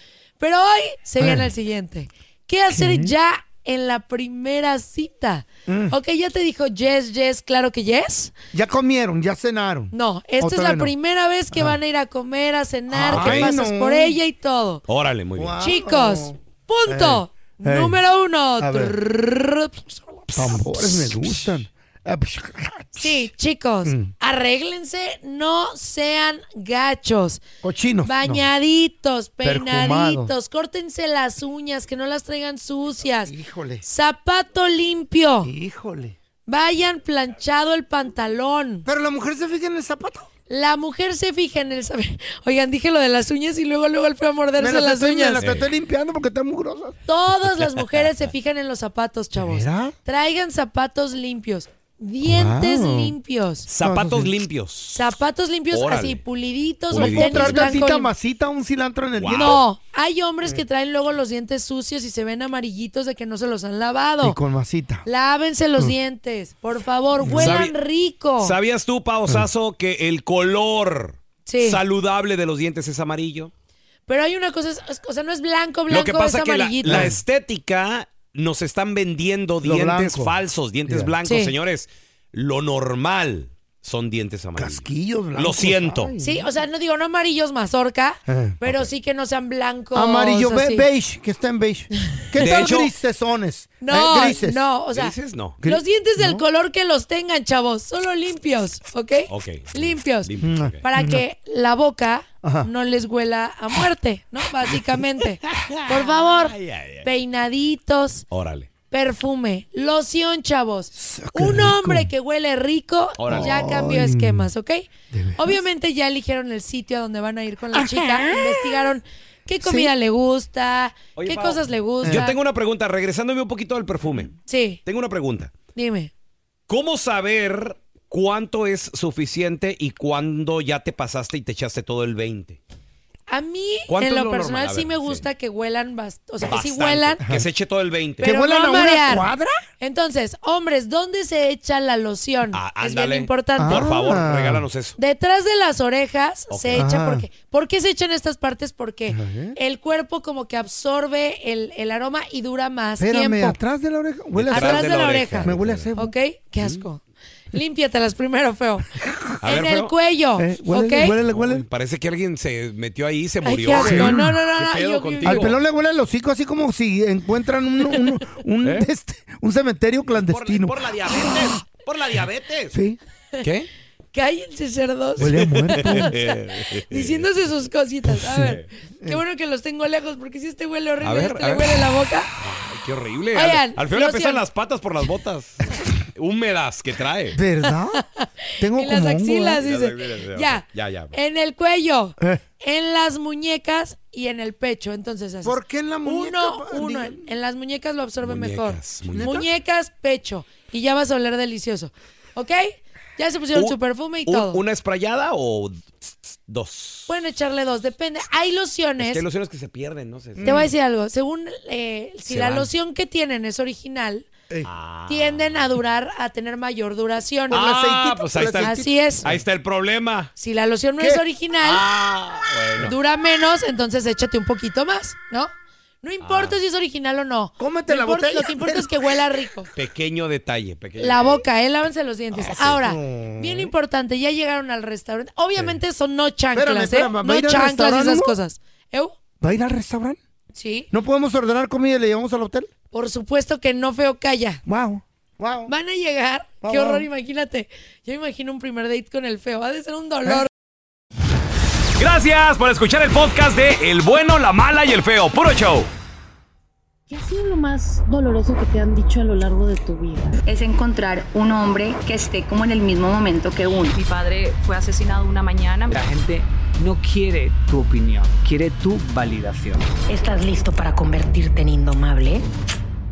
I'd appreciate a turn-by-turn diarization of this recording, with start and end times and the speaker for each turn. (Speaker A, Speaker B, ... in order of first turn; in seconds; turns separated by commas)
Speaker A: 0.4-8.3, Speaker B: 1.2-1.5, Speaker B: 2.7-3.1, Speaker B: 5.7-6.0, Speaker B: 8.5-10.9, Speaker A: 9.9-14.8, Speaker B: 11.5-11.8, Speaker B: 12.9-14.2, Speaker C: 13.1-13.5, Speaker C: 14.9-15.6, Speaker B: 15.4-18.0, Speaker A: 15.6-20.6, Speaker B: 18.6-19.0, Speaker C: 20.3-21.2, Speaker B: 20.3-23.3, Speaker A: 22.9-27.4, Speaker B: 23.8-24.1, Speaker B: 27.6-28.5, Speaker A: 28.0-35.5, Speaker B: 29.4-30.3, Speaker B: 33.2-33.8, Speaker B: 35.4-36.1, Speaker A: 36.5-38.9, Speaker B: 38.9-40.3, Speaker A: 40.5-45.4, Speaker B: 44.6-47.0, Speaker C: 45.4-45.7, Speaker A: 47.0-53.6, Speaker C: 47.5-48.3, Speaker B: 49.3-49.9, Speaker B: 52.2-53.1, Speaker C: 53.7-55.1, Speaker B: 53.8-54.3, Speaker A: 54.9-58.1, Speaker C: 55.7-56.2, Speaker C: 56.9-57.7, Speaker B: 56.9-59.6, Speaker C: 59.1-59.6, Speaker A: 59.3-64.4, Speaker B: 64.2-65.0, Speaker A: 65.0-68.5, Speaker B: 67.2-67.7, Speaker C: 67.3-67.7, Speaker C: 68.4-73.5, Speaker A: 71.5-71.8, Speaker A: 74.1-77.1, Speaker C: 75.9-86.1, Speaker B: 76.8-77.2, Speaker B: 79.6-81.1, Speaker A: 81.2-81.5, Speaker B: 84.5-86.5, Speaker A: 86.2-90.9, Speaker B: 88.3-88.6, Speaker B: 89.9-94.6, Speaker A: 92.1-92.4, Speaker C: 92.4-92.9, Speaker A: 93.8-100.3, Speaker C: 94.9-95.6, Speaker B: 95.6-96.4, Speaker C: 99.3-100.8, Speaker B: 100.4-101.2, Speaker A: 100.8-108.2, Speaker B: 102.4-102.7, Speaker C: 105.4-107.1, Speaker C: 108.3-108.7, Speaker A: 108.9-122.4, Speaker B: 110.9-112.1, Speaker C: 113.2-113.7, Speaker B: 113.3-114.5, Speaker B: 115.1-115.6, Speaker B: 117.8-118.4, Speaker B: 119.6-119.9, Speaker C: 121.2-124.3, Speaker B: 122.0-122.3, Speaker A: 124.5-124.8, Speaker C: 124.8-125.5, Speaker A: 125.7-126.1, Speaker C: 126.7-132.6, Speaker A: 133.3-137.2, Speaker C: 133.9-135.2, Speaker C: 136.4-138.3, Speaker B: 138.2-139.6, Speaker A: 138.2-139.3, Speaker A: 139.8-143.9, Speaker C: 142.5-145.0, Speaker B: 143.6-144.6, Speaker A: 145.0-153.6, Speaker C: 146.5-146.8, Speaker B: 146.7-147.2, Speaker B: 149.1-149.6, Speaker B: 153.0-156.1, Speaker C: 154.3-155.9, Speaker A: 154.5-158.9, Speaker B: 159.0-159.4, Speaker C: 159.4-159.9, Speaker A: 159.4-161.2, Speaker B: 160.4-161.6, Speaker C: 161.3-165.6, Speaker A: 163.4-165.4, Speaker B: 163.8-164.4, Speaker B: 165.2-171.6, Speaker C: 170.1-172.8, Speaker B: 172.7-173.0, Speaker C: 173.4-173.7, Speaker A: 174.1-182.3, Speaker B: 175.2-176.1, Speaker C: 175.2-177.3, Speaker B: 178.1-179.2, Speaker C: 178.4-178.7, Speaker C: 181.0-181.8, Speaker C: 182.4-187.4, Speaker A: 183.3-184.4, Speaker B: 187.3-188.0, Speaker A: 188.0-204.6, Speaker B: 188.6-189.6, Speaker C: 189.6-191.2, Speaker B: 195.4-197.3, Speaker C: 198.2-199.3, Speaker B: 199.1-199.5, Speaker C: 203.5-207.1, Speaker A: 207.1-209.2, Speaker C: 209.0-210.5, Speaker B: 210.4-210.7, Speaker A: 210.4-214.3, Speaker C: 212.3-212.7, Speaker C: 214.6-215.7, Speaker A: 215.1-217.6, Speaker B: 217.5-218.9, Speaker C: 217.5-220.3, Speaker A: 218.4-219.3, Speaker A: 220.4-221.8, Speaker B: 221.0-221.2, Speaker C: 221.6-222.9, Speaker A: 222.8-225.5, Speaker A: 226.0-229.7, Speaker C: 226.2-226.6, Speaker B: 227.6-229.3, Speaker C: 229.7-231.4, Speaker A: 231.0-239.2, Speaker B: 232.3-233.7, Speaker B: 236.5-238.4, Speaker B: 239.4-240.2, Speaker A: 240.5-240.9, Speaker B: 240.9-242.7, Speaker A: 242.9-244.6, Speaker B: 244.7-245.7, Speaker A: 245.7-250.5, Speaker B: 246.6-247.1, Speaker C: 252.0-255.9, Speaker D: 257.1-260.3, Speaker E: 260.4-264.0, Speaker F: 263.9-266.0, Speaker G: 265.9-269.9, Speaker H: 270.1-272.4